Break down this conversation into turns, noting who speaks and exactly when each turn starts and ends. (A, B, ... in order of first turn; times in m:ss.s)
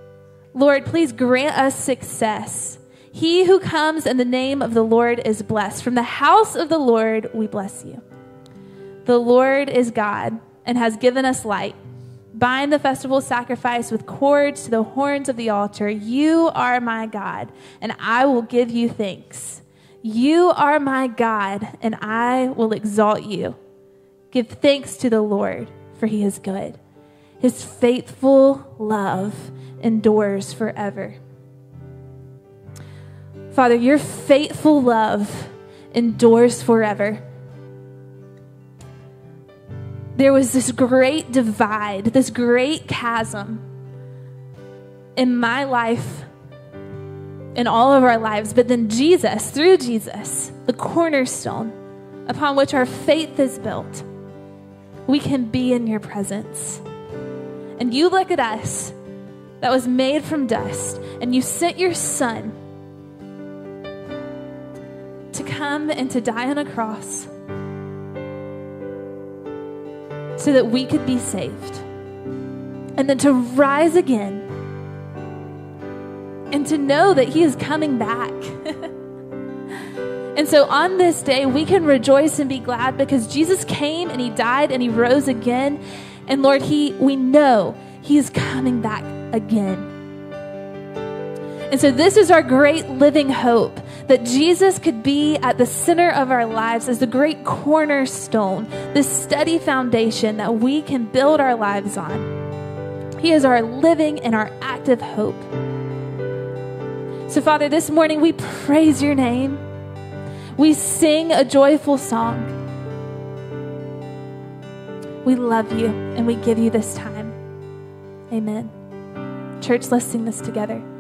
0:00.5-0:08.0 A
0:09.0-0:11.8 A
0:12.3-0:23.6 A
0:24.3-0:26.8 A
0:27.4-0:31.2 A
0:33.5-0:37.2 A
0:40.2-0:43.6 A
0:45.2-0:46.3 A
0:47.6-0:51.7 A
0:52.3-0:54.0 A
0:55.1-0:56.8 A
0:57.8-0:59.0 A
0:59.6-1:02.6 A
1:05.3-1:07.3 A
1:10.4-1:11.8 A
1:13.0-1:14.5 A
1:16.5-1:18.8 A
1:20.4-1:29.9 A
1:31.7-1:42.3 A
1:43.2-1:45.5 A
1:47.3-1:49.6 A
1:50.6-1:52.5 A
1:55.2-1:57.4 A
1:58.3-1:58.7 A
1:59.6-2:00.8 A